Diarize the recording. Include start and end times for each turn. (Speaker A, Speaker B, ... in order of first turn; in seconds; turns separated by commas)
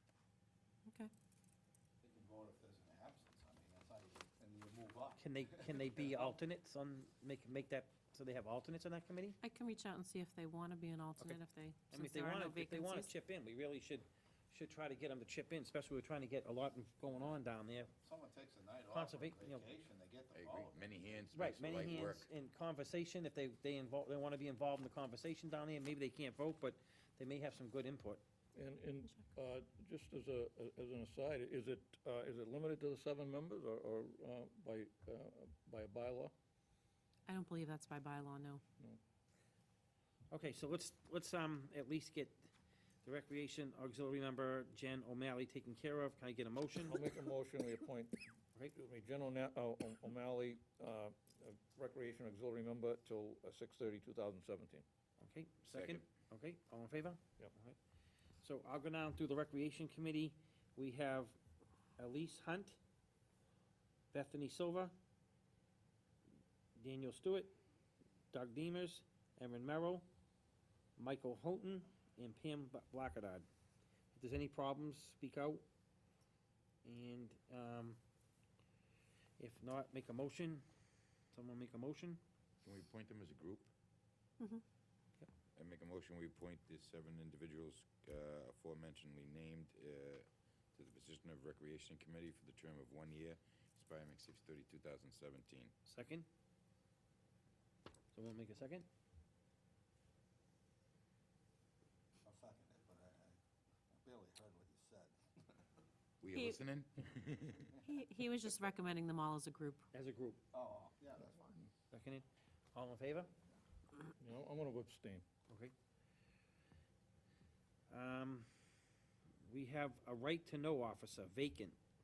Speaker A: 2.0-6.1, Speaker B: 5.2-9.4, Speaker C: 9.4-13.1, Speaker B: 11.9-17.9, Speaker A: 17.9-21.2, Speaker B: 18.9-19.7, Speaker D: 20.3-22.3, Speaker B: 21.3-28.2, Speaker E: 28.5-36.3, Speaker C: 37.3-38.6, Speaker B: 40.3-42.5, Speaker B: 43.0-47.0, Speaker E: 46.9-54.8, Speaker B: 55.2-57.8, Speaker D: 55.7-56.0, Speaker B: 58.4-61.4, Speaker B: 62.0-62.8, Speaker B: 64.1-64.9, Speaker B: 66.8-67.5, Speaker B: 68.3-70.1, Speaker B: 71.0-73.5, Speaker B: 74.1-75.6, Speaker B: 76.8-78.0, Speaker B: 79.4-80.7, Speaker B: 81.3-82.2, Speaker D: 82.6-83.7, Speaker D: 85.5-95.7, Speaker B: 95.8-96.3, Speaker B: 98.1-98.9, Speaker A: 102.2-103.4, Speaker A: 103.9-105.2, Speaker D: 106.2-107.8, Speaker C: 106.3-106.6, Speaker C: 107.8-109.9, Speaker B: 109.9-110.4, Speaker A: 110.5-111.6, Speaker B: 111.9-113.3, Speaker E: 114.2-115.2, Speaker B: 117.9-118.5, Speaker B: 119.4-121.8